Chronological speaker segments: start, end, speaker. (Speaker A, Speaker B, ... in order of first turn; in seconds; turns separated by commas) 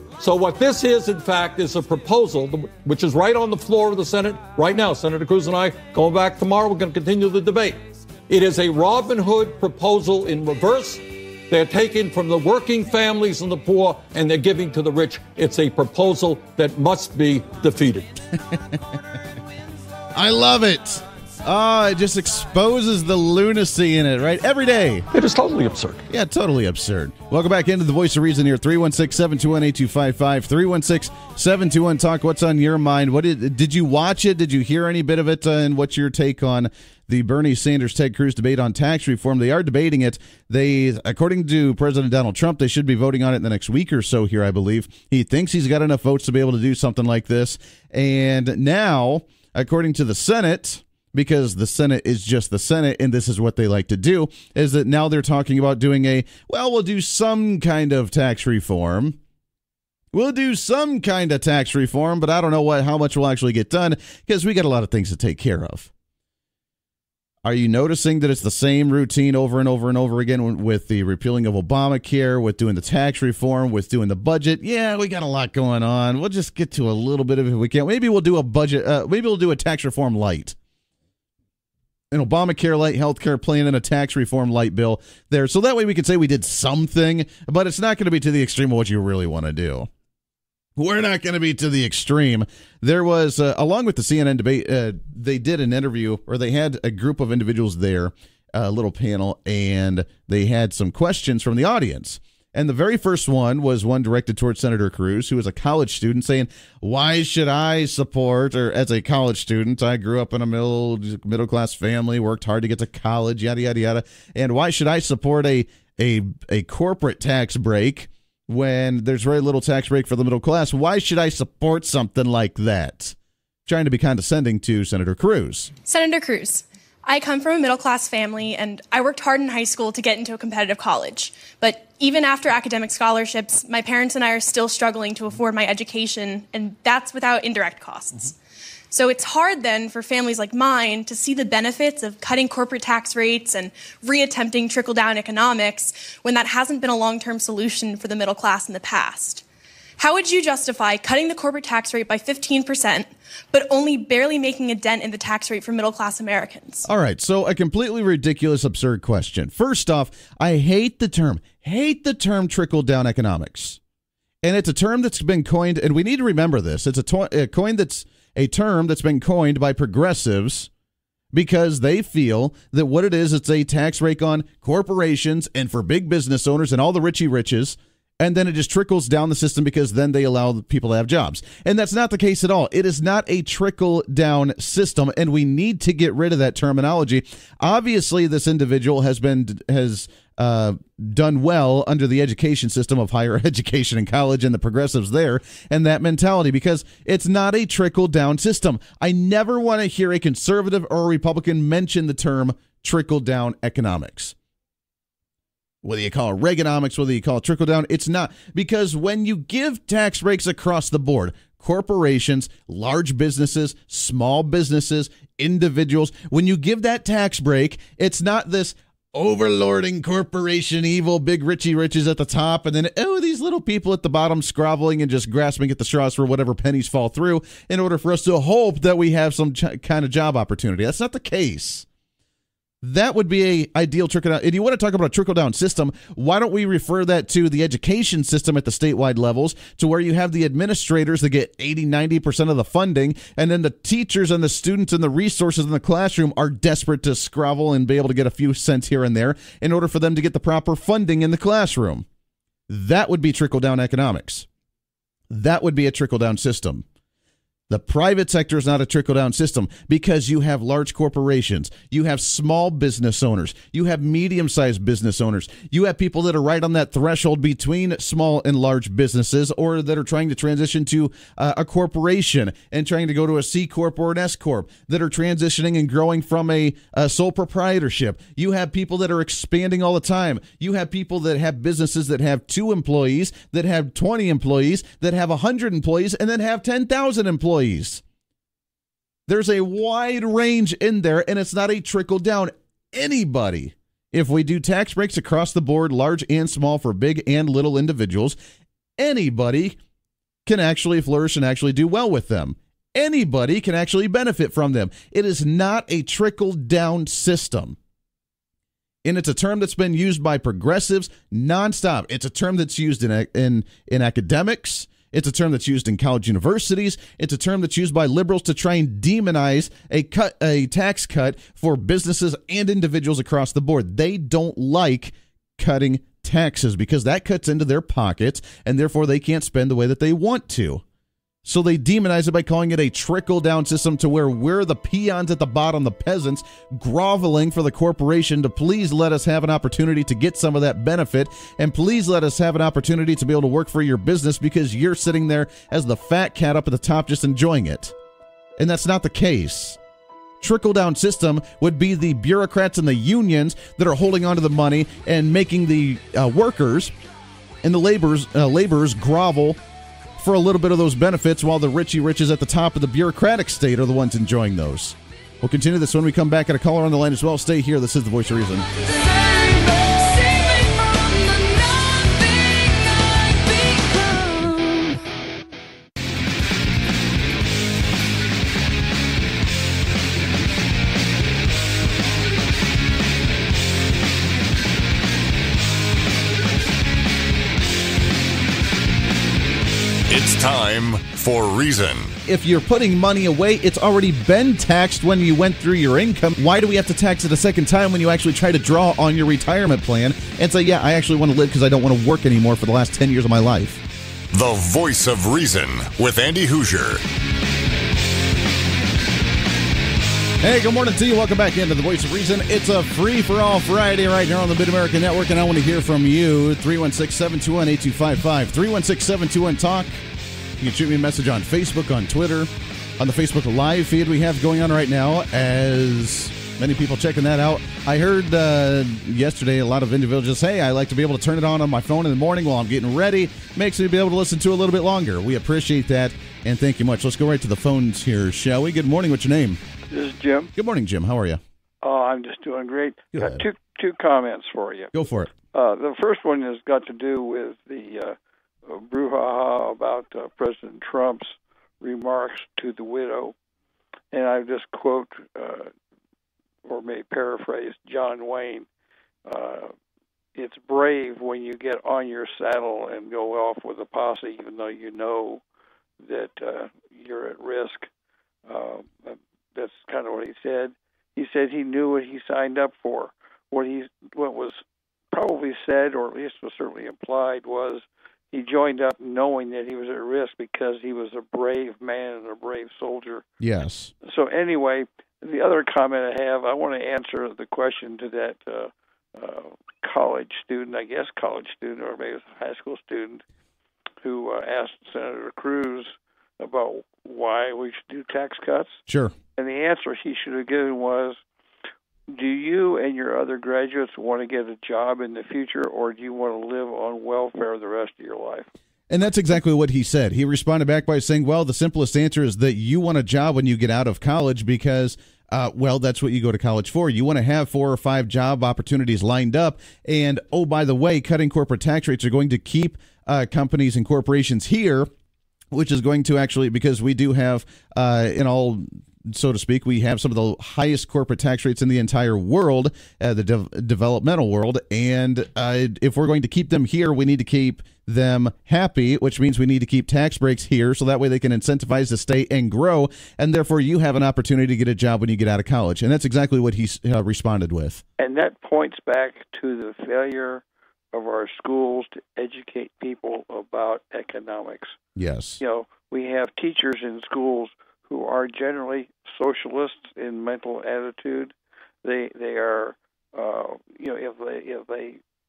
Speaker A: 0.2-18.1, Speaker B: 18.5-18.8, Speaker B: 20.1-25.1, Speaker A: 25.1-26.0, Speaker B: 26.1-59.2, Speaker B: 60.1-65.9, Speaker B: 67.4-80.5, Speaker B: 82.1-89.9, Speaker B: 90.8-125.7, Speaker C: 125.8-138.3, Speaker C: 138.9-149.4, Speaker C: 150.0-156.8, Speaker B: 156.9-163.8, Speaker B: 164.4-170.7, Speaker B: 171.3-204.3, Speaker B: 205.8-231.8, Speaker B: 232.8-252.1, Speaker B: 252.7-254.5, Speaker B: 255.3-256.8, Speaker B: 257.7-288.0, Speaker B: 289.3-298.4, Speaker B: 299.0-299.8, Speaker B: 300.4-307.8, Speaker B: 309.0-330.8, Speaker B: 331.4-347.9, Speaker B: 348.6-349.8, Speaker B: 350.4-356.9, Speaker B: 357.6-359.6, Speaker B: 360.2-368.7, Speaker D: 390.1-392.1, Speaker B: 392.2-403.8, Speaker D: 404.3-407.0, Speaker B: 410.4-420.0, Speaker B: 420.6-439.6, Speaker E: 439.9-440.5, Speaker B: 440.6-441.4, Speaker E: 441.8-444.9, Speaker B: 443.1-443.4, Speaker B: 444.9-445.3, Speaker E: 445.5-453.3, Speaker E: 454.1-455.7, Speaker E: 456.6-458.6, Speaker E: 459.2-459.7, Speaker E: 460.3-465.4, Speaker E: 466.0-467.9, Speaker E: 468.5-483.2, Speaker B: 483.4-483.9, Speaker E: 484.0-493.2, Speaker E: 494.0-498.8, Speaker B: 498.9-499.1, Speaker E: 499.4-501.2, Speaker E: 502.1-508.5, Speaker B: 508.9-524.9, Speaker B: 525.5-547.8, Speaker E: 548.0-554.8, Speaker B: 555.0-555.4, Speaker E: 555.4-565.0